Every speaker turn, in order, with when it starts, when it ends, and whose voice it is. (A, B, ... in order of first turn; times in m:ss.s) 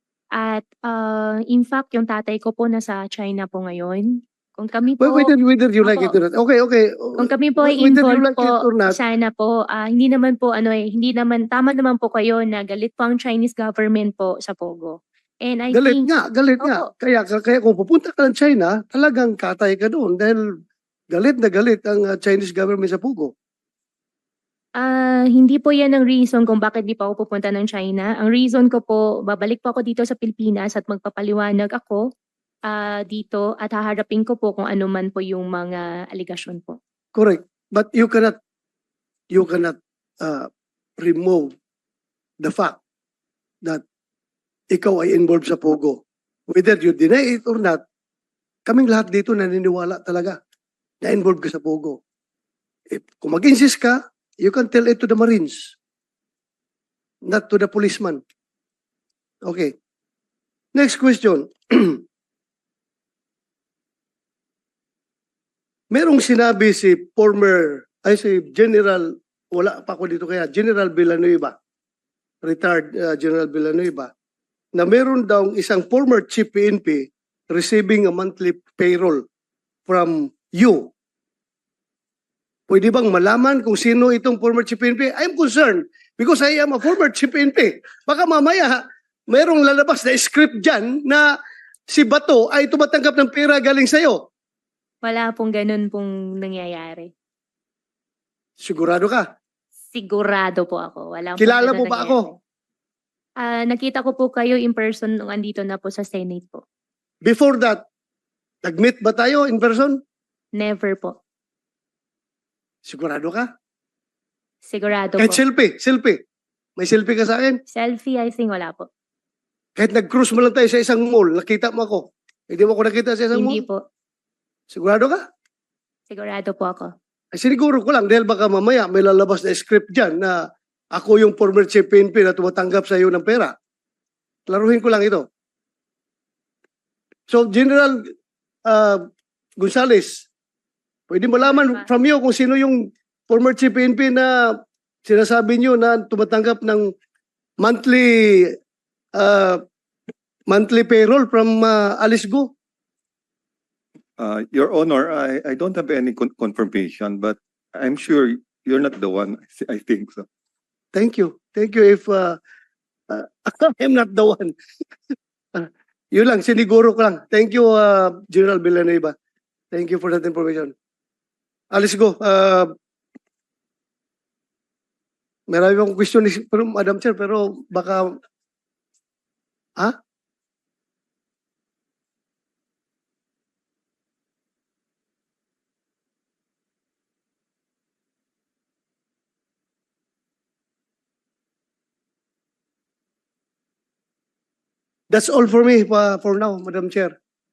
0:00.4-0:06.2 A
0:05.0-0:09.0 B
0:07.2-0:16.1 A
0:15.7-0:20.4 B
0:21.1-0:23.3 B
0:24.8-0:32.0 A
0:32.7-0:36.8 A
0:37.2-0:38.4 B
0:39.3-0:41.5 B
0:42.4-0:42.8 B
0:44.7-0:47.8 B
0:48.7-0:50.4 B
0:51.0-0:52.0 B
0:52.9-0:55.8 B
0:57.3-0:58.2 B
0:59.5-0:59.7 B
1:00.8-1:02.0 B
1:05.9-1:11.5 B
1:12.4-1:14.1 B
1:14.8-1:19.2 B
1:19.9-1:20.9 B
1:22.7-1:31.3 B
1:31.9-1:34.2 B
1:35.0-1:37.1 A
1:38.6-1:39.3 B
1:39.9-1:42.4 A
1:41.4-1:42.3 B
1:43.4-1:46.6 A
1:47.2-1:47.8 B
1:48.6-1:50.0 B
1:50.6-1:51.2 A
1:52.8-1:53.5 B
1:54.6-1:55.4 A
1:55.2-1:56.2 B
1:56.8-1:57.6 B
1:57.7-1:58.9 A
1:59.8-2:03.6 B
2:03.3-2:03.8 A
2:04.7-2:05.2 B
2:06.1-2:06.9 A
2:07.3-2:10.4 B
2:10.9-2:13.5 B
2:14.5-2:15.2 B
2:17.3-2:18.0 B
2:18.7-2:19.1 B
2:19.6-2:20.3 B
2:21.1-2:26.9 B
2:21.4-2:21.9 A
2:27.6-2:28.6 B
2:29.2-2:29.6 B
2:30.5-2:32.5 B
2:34.2-2:40.3 C
2:40.9-2:42.4 B
2:43.1-2:44.6 B
2:45.1-2:49.1 B
2:49.7-2:50.7 B
2:51.7-2:52.7 B
2:55.5-2:58.2 B
3:15.1-3:17.2 B